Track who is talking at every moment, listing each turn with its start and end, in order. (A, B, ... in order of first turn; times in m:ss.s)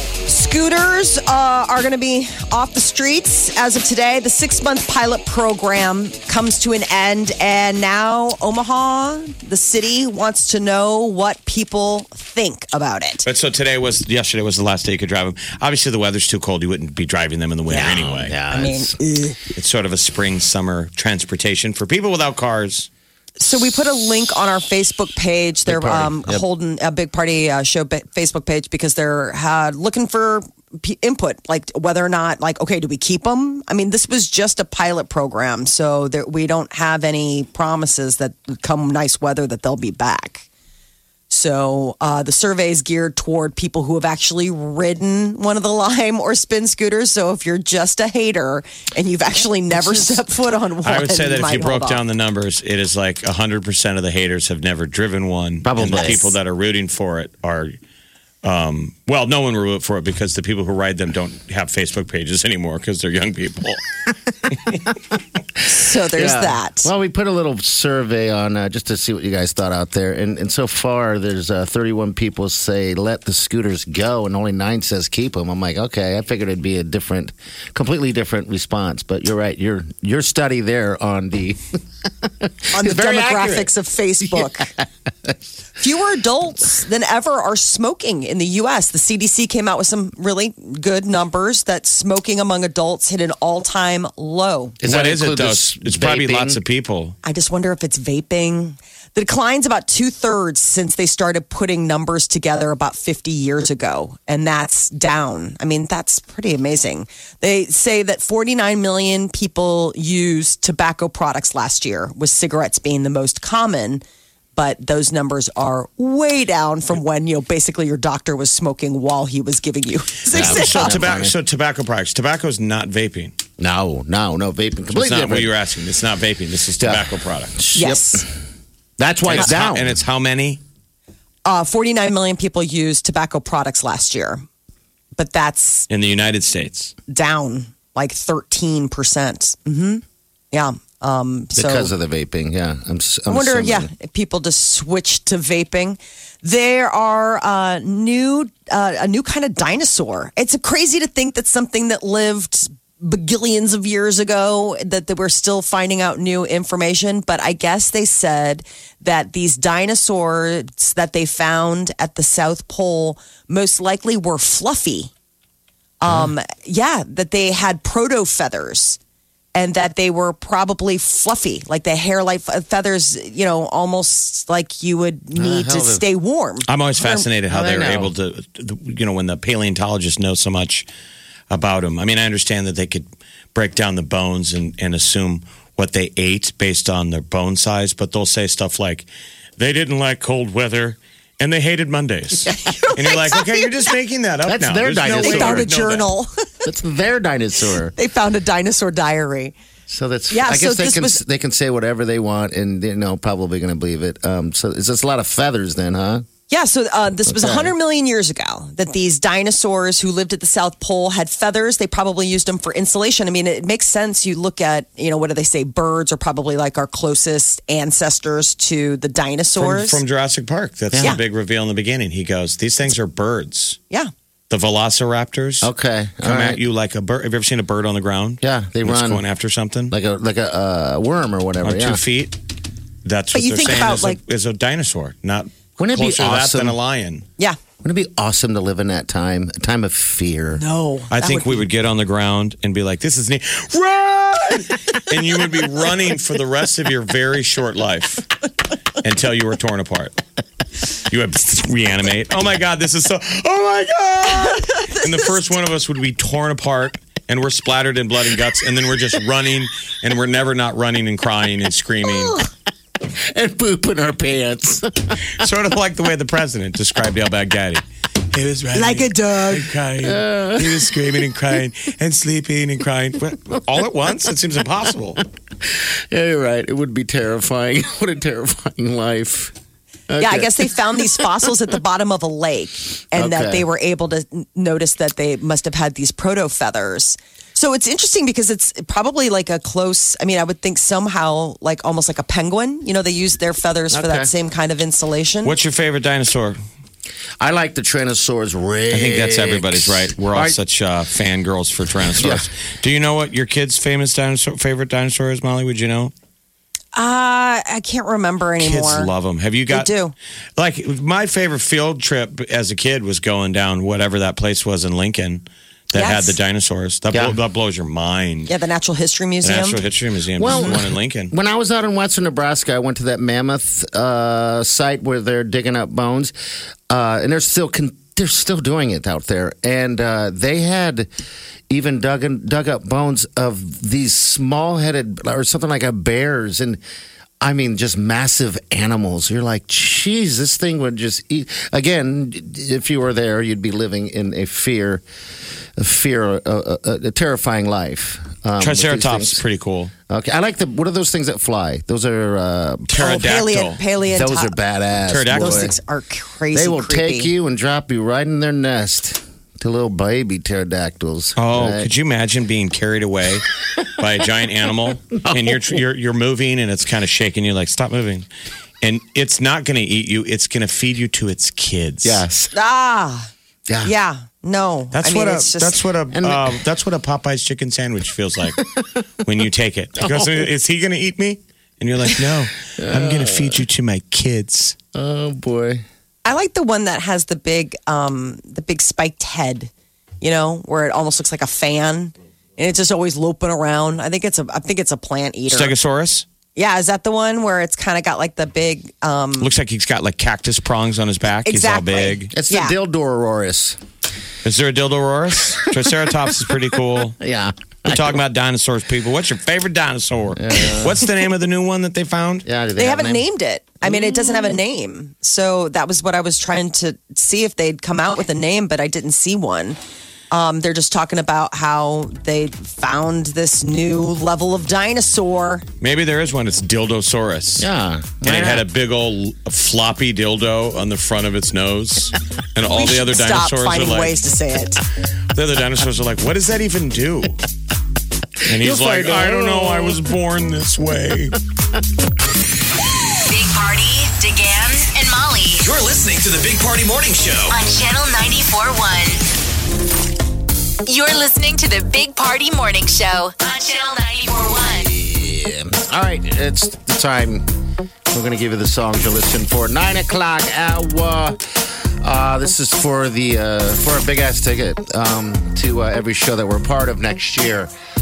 0:00.3-0:13.3 A
0:13.2-0:18.3 B
0:17.7-0:19.0 C
0:18.5-0:19.4 A
0:19.5-0:22.9 B
0:23.4-0:40.5 A
0:25.6-0:26.4 C
0:41.3-0:52.0 A
0:49.9-0:50.2 B
0:50.8-0:57.7 B
0:55.6-0:56.2 C
0:55.9-0:56.3 A
0:58.4-1:03.8 B
1:05.6-1:06.9 A
1:06.1-1:21.6 C
1:22.2-1:23.7 C
1:22.7-1:24.7 A
1:24.2-1:24.7 C
1:25.8-1:34.8 A
1:34.8-1:36.6 C
1:34.8-1:37.1 B
1:37.2-1:54.0 A
1:54.5-2:01.1 A
2:00.3-2:01.3 C
2:00.3-2:03.3 B
2:03.6-2:05.6 C
2:04.9-2:07.5 B
2:06.8-2:08.3 C
2:07.7-2:08.2 A
2:09.0-2:09.9 C
2:09.2-2:10.6 B
2:11.4-2:14.4 A
2:15.2-2:15.9 A
2:15.9-2:16.9 B
2:17.1-2:21.9 A
2:21.6-2:23.9 C
2:23.3-2:45.1 A
2:46.0-2:49.0 A
2:46.0-2:46.3 C
2:49.5-2:57.2 A
2:55.3-2:56.0 C
2:56.7-3:00.9 B
2:57.5-2:58.1 C
3:01.5-3:16.1 B
3:12.5-3:12.8 C
3:12.6-3:13.9 A
3:14.4-3:15.7 C
3:15.1-3:16.6 A
3:16.6-3:17.9 C
3:17.9-3:19.5 A
3:19.9-3:26.2 C
3:20.3-3:21.2 A
3:26.5-3:40.0 A
3:27.3-3:27.7 C
3:39.6-3:43.8 B
3:40.9-3:41.2 C
3:44.5-3:45.7 B
3:45.6-3:46.6 C
3:46.2-3:49.9 B
3:48.4-3:49.2 C
3:49.9-3:52.0 C
3:51.6-3:52.4 B
3:53.0-3:57.2 B
3:53.3-3:54.2 A
3:55.8-3:56.8 C
3:57.8-4:00.6 C
4:00.6-4:01.7 A
4:01.1-4:08.3 B
4:09.0-4:10.2 B
4:11.1-4:22.4 B
4:23.2-4:25.3 C
4:25.3-4:35.2 B
4:28.7-4:29.6 A
4:30.0-4:31.0 C
4:35.7-4:39.5 C
4:40.1-4:41.2 C
4:40.2-4:55.6 A
4:43.1-4:43.6 C
4:53.9-4:54.3 C
4:55.4-4:56.6 B
4:57.4-5:00.6 C
4:58.9-5:06.1 B
5:02.0-5:02.5 C
5:06.9-5:09.1 A
5:08.6-5:09.9 B
5:09.7-5:10.1 A
5:10.6-5:18.5 B
5:15.9-5:16.4 A
5:18.5-5:19.8 A
5:19.4-5:21.3 B
5:20.4-5:26.3 C
5:20.4-5:20.8 A
5:26.9-5:31.1 C
5:31.7-5:36.8 C
5:37.4-5:45.0 C
5:45.8-5:49.4 C
5:48.6-5:49.9 B
5:50.1-5:53.0 C
5:52.9-5:53.8 B
5:52.9-5:54.6 A
5:54.0-5:55.8 C
5:55.1-5:55.7 B
5:55.3-5:57.3 A
5:56.5-6:01.9 C
6:01.4-6:08.3 B
6:05.2-6:05.8 C
6:08.8-6:12.2 B
6:12.0-6:12.5 C
6:12.5-6:13.3 A
6:13.7-6:13.9 C
6:13.8-6:15.7 A
6:14.9-6:18.6 B
6:16.1-6:16.6 C
6:18.6-6:19.0 C
6:19.2-6:24.8 B
6:20.0-6:20.5 C
6:22.8-6:23.6 C
6:24.9-6:25.8 C
6:26.2-6:35.7 A
6:35.5-6:36.2 B
6:36.5-6:39.5 A
6:39.4-6:42.3 B
6:41.4-6:42.8 A
6:42.3-6:43.8 C
6:44.4-6:47.2 B
6:47.2-6:48.2 C
6:47.9-6:52.5 B
6:50.3-6:51.0 C
6:52.4-6:53.2 C
6:52.8-6:59.8 A
7:00.3-7:05.6 A
7:05.8-7:07.7 B
7:07.6-7:08.6 C
7:08.2-7:14.2 B
7:12.7-7:14.8 A
7:15.3-7:17.4 B
7:18.4-7:21.4 B
7:18.5-7:20.0 C
7:23.2-7:25.7 D
7:25.6-7:27.6 E
7:27.5-7:29.2 D
7:30.8-7:34.9 D
7:34.4-7:37.4 C
7:38.1-7:47.7 C